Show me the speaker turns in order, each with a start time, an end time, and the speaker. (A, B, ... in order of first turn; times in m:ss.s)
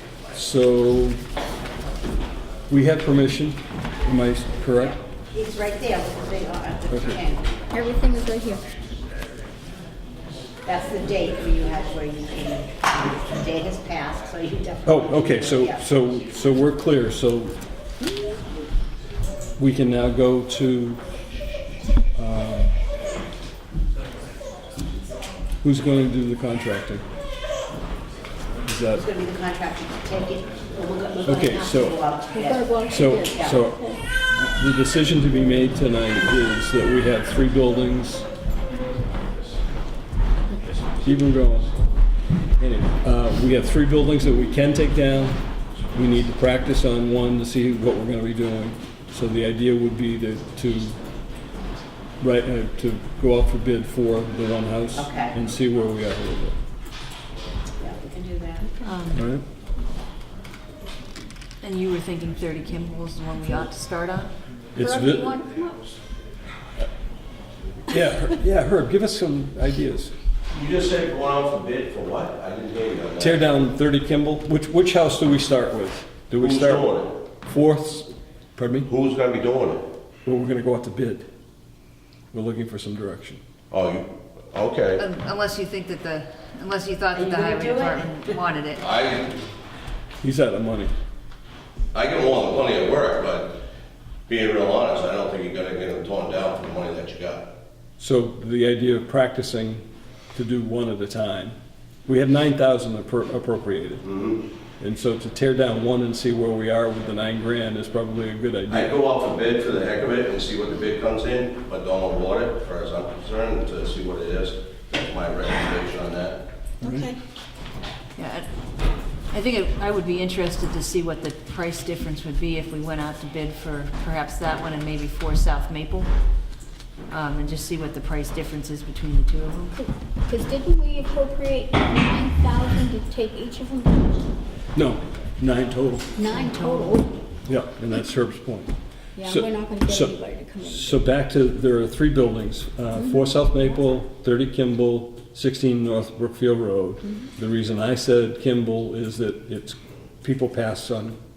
0:00.3-0:01.2 A
0:02.7-0:05.0 A
0:05.3-0:07.5 B
0:06.9-0:07.2 A
0:07.7-0:08.6 C
0:10.6-0:15.8 B
0:14.8-0:17.6 A
0:19.6-0:21.0 A
0:22.2-0:22.8 A
0:25.6-0:27.0 A
0:28.7-0:29.0 A
0:28.9-0:33.6 B
0:31.3-0:32.0 A
0:32.3-0:34.0 C
0:32.9-0:38.3 A
0:41.0-0:41.8 A
0:42.6-0:51.0 A
0:52.2-0:56.6 A
0:55.0-0:55.4 B
0:57.8-0:58.8 B
0:58.8-0:59.3 D
0:59.1-0:59.4 A
1:01.6-1:04.4 D
1:04.8-1:05.4 A
1:04.8-1:05.8 C
1:07.9-1:10.2 A
1:10.5-1:13.5 E
1:13.2-1:18.9 A
1:16.4-1:17.2 E
1:18.8-1:19.9 E
1:20.2-1:21.3 A
1:22.3-1:23.4 A
1:23.7-1:25.0 E
1:25.0-1:28.9 D
1:27.2-1:28.3 B
1:28.8-1:29.4 E
1:30.2-1:30.9 A
1:31.9-1:33.6 E
1:34.3-1:37.5 E
1:38.0-1:41.6 A
1:42.1-1:44.1 A
1:44.0-1:44.4 E
1:44.8-1:48.9 A
1:48.7-1:56.5 E
1:56.8-1:57.2 C
1:58.2-1:58.5 D
1:59.3-2:06.1 D
2:07.1-2:09.8 D
2:09.8-2:14.3 C
2:14.7-2:16.1 A
2:16.2-2:17.1 C
2:16.3-2:16.9 D
2:17.5-2:31.2 A
2:19.2-2:21.0 C
2:23.0-2:23.4 C